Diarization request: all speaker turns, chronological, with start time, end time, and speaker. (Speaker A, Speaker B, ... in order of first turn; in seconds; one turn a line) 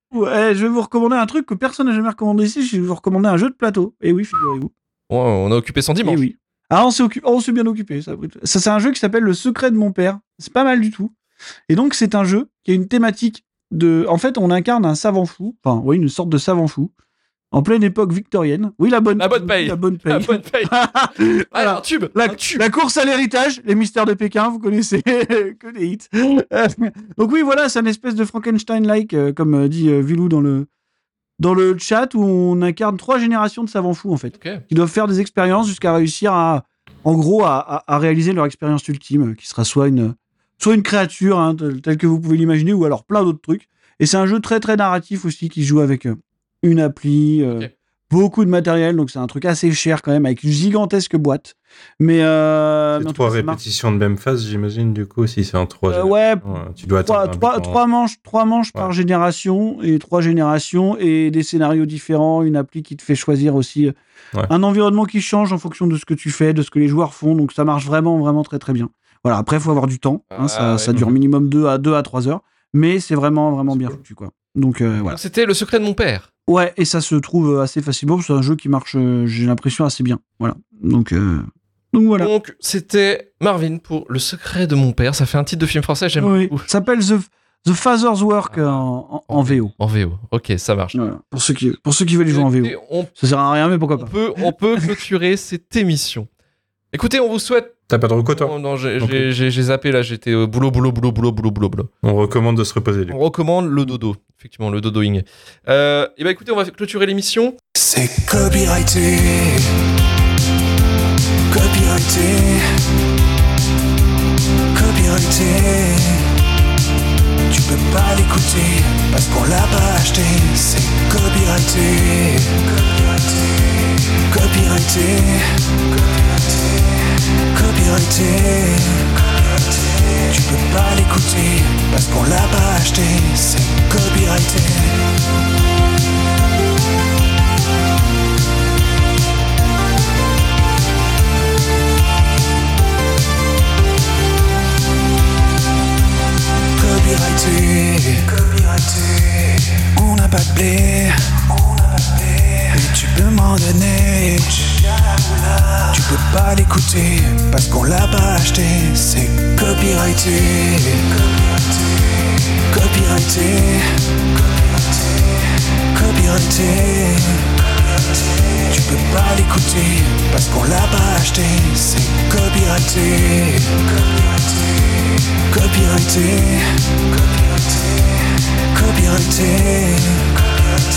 Speaker A: 0.1-4.7
Speaker B: 5.1-6.2
Speaker A: 6.0-11.1
Speaker A: 11.7-16.9
Speaker A: 17.5-30.7
Speaker B: 19.2-22.6
Speaker A: 31.4-53.6
Speaker B: 34.3-34.6
Speaker C: 52.9-57.8
Speaker A: 55.9-63.9
Speaker A: 64.5-75.2
Speaker B: 70.3-71.1
Speaker B: 73.7-73.9
Speaker B: 75.0-76.3
Speaker A: 76.5-82.3
Speaker B: 82.2-86.7
Speaker A: 86.2-89.7
Speaker B: 88.5-91.0
Speaker A: 90.9-94.2
Speaker B: 92.3-93.1
Speaker B: 94.0-96.3
Speaker B: 96.9-97.7
Speaker C: 97.9-99.3
Speaker B: 98.3-101.9
Speaker C: 102.0-103.2
Speaker B: 103.1-107.5
Speaker D: 107.8-109.8
Speaker D: 111.5-112.8
Speaker D: 114.7-116.3
Speaker D: 117.5-122.9
Speaker D: 124.2-125.8
Speaker D: 127.3-129.3
Speaker D: 130.1-135.1
Speaker D: 146.8-161.3
Speaker D: 162.7-164.2
Speaker D: 165.3-167.7
Speaker D: 168.5-174.2
Speaker D: 175.4-177.1
Speaker D: 178.2-180.5